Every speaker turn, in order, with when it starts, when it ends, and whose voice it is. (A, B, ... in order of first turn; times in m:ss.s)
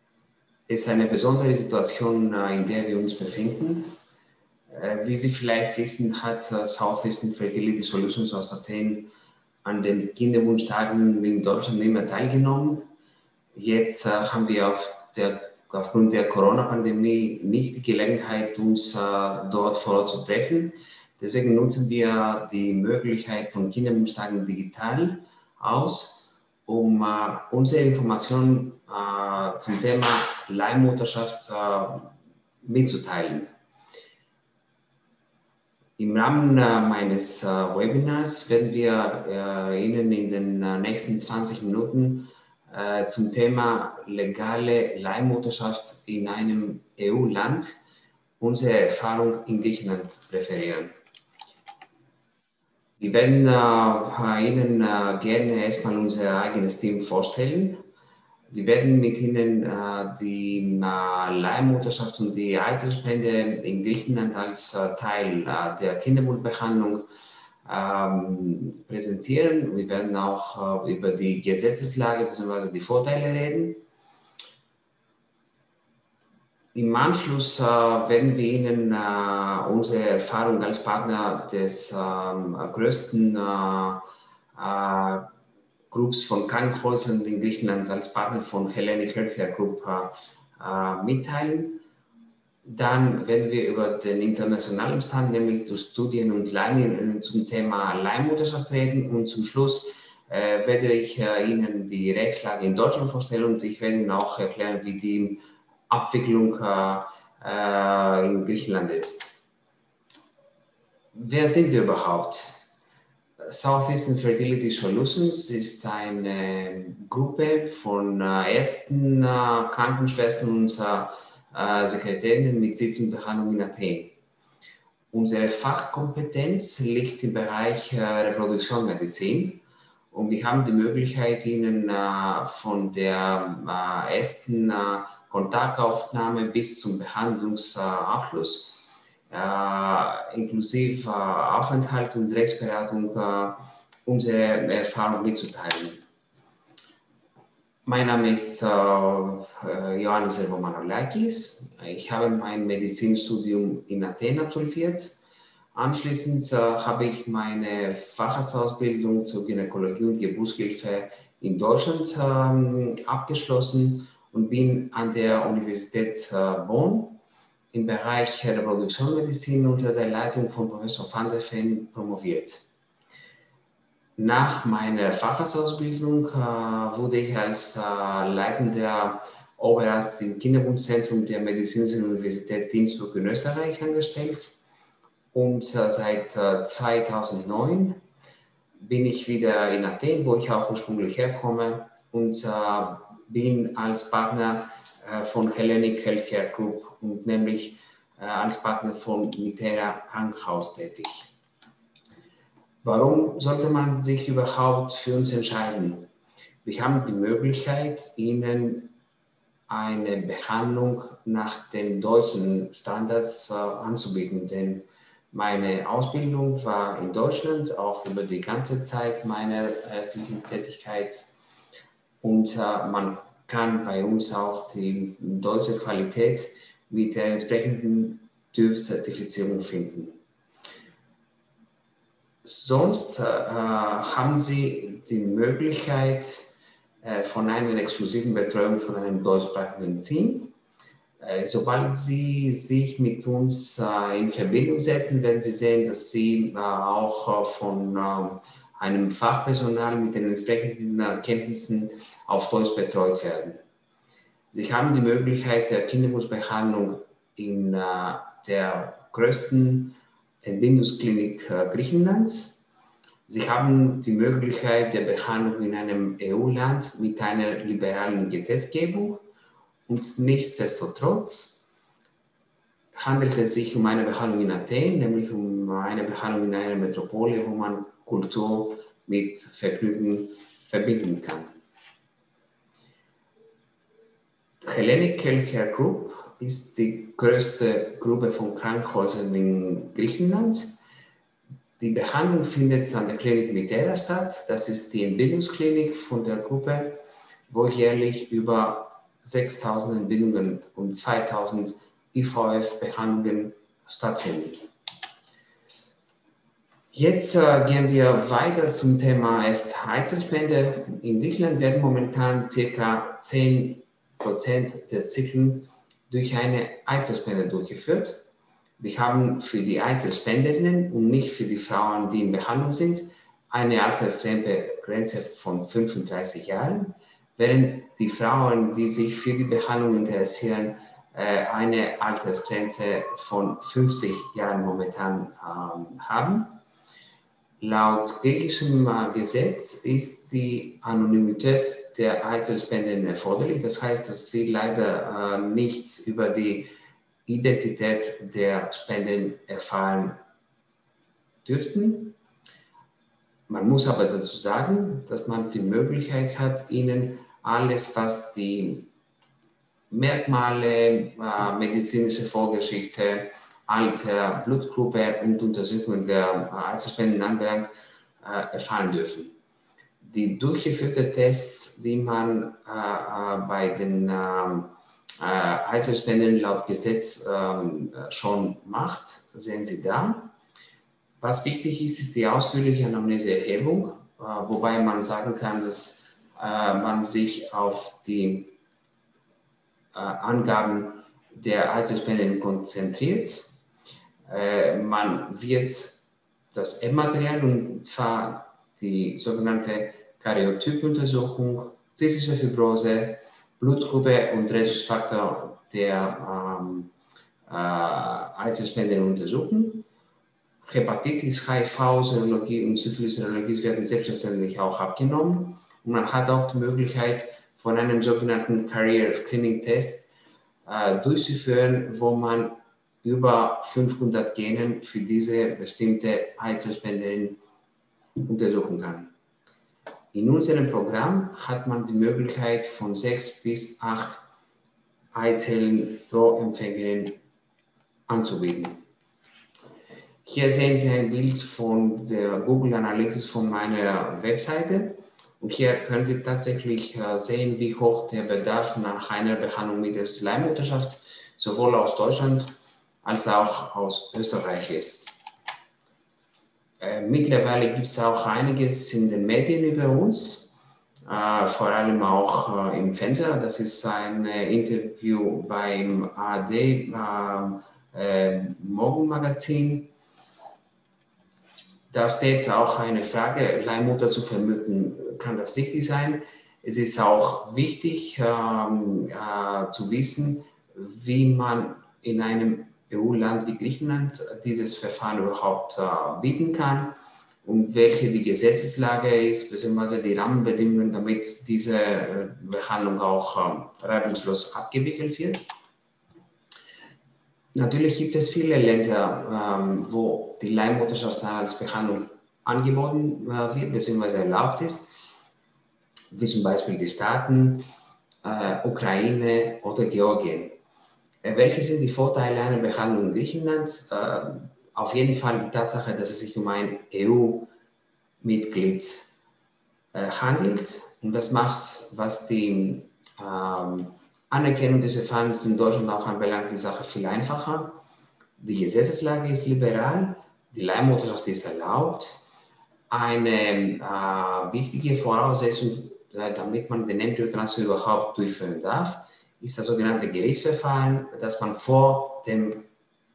0:00.7-0:03.9 A
0:04.7-0:09.1 A
0:09.6-0:12.8 A
0:13.5-0:32.1 A
0:32.6-0:33.5 A
0:36.0-0:47.7 A
0:48.4-0:50.9 A
0:53.0-0:57.8 A
0:58.5-1:07.0 A
1:07.6-1:13.8 A
1:16.7-1:24.0 A
1:24.5-1:25.3 A
1:25.9-1:31.8 A
1:32.6-1:49.3 A
1:51.1-1:52.6 A
1:53.4-2:04.1 A
2:05.1-2:26.0 A
2:27.8-2:35.2 A
2:35.7-2:47.2 A
2:47.7-2:52.6 A
2:54.2-3:04.5 A
3:05.3-3:08.0 A
3:08.8-3:21.2 A
3:22.8-3:26.1 A
3:26.6-3:28.9 A
3:29.7-3:41.2 A
3:42.2-3:50.2 A
3:52.4-3:56.5 A
3:57.0-4:00.5 A
4:01.2-4:13.6 A
4:14.5-4:22.6 A
4:23.3-4:29.2 A
4:29.9-4:31.6 A
4:32.9-4:41.5 A
4:44.6-4:50.8 A
4:51.8-5:04.6 A
5:06.9-5:18.2 A
5:18.8-5:36.6 A
5:37.6-5:46.7 A
5:47.2-5:50.2 A
5:51.4-5:52.2 A
5:53.5-5:58.9 A
5:59.9-6:07.7 A
6:08.2-6:09.3 A
6:10.0-6:20.3 A
6:21.2-6:28.5 A
6:29.9-6:33.5 A
6:34.3-6:36.0 A
6:36.5-6:46.9 A
6:47.5-6:49.8 A
6:50.6-7:00.1 A
7:00.6-7:07.4 A
7:08.2-7:09.1 A
7:10.1-7:14.2 A
7:15.1-7:17.2 A
7:18.1-7:18.8 A
7:20.2-7:32.5 A
7:33.0-7:35.1 A
7:36.8-7:49.9 A
7:51.9-8:15.4 A
8:17.5-8:25.0 A
8:26.1-8:27.6 A
8:28.2-8:30.6 A
8:31.2-8:37.5 A
8:38.2-8:39.1 A
8:39.9-8:47.8 A
8:48.4-8:52.2 A
8:52.9-9:02.6 A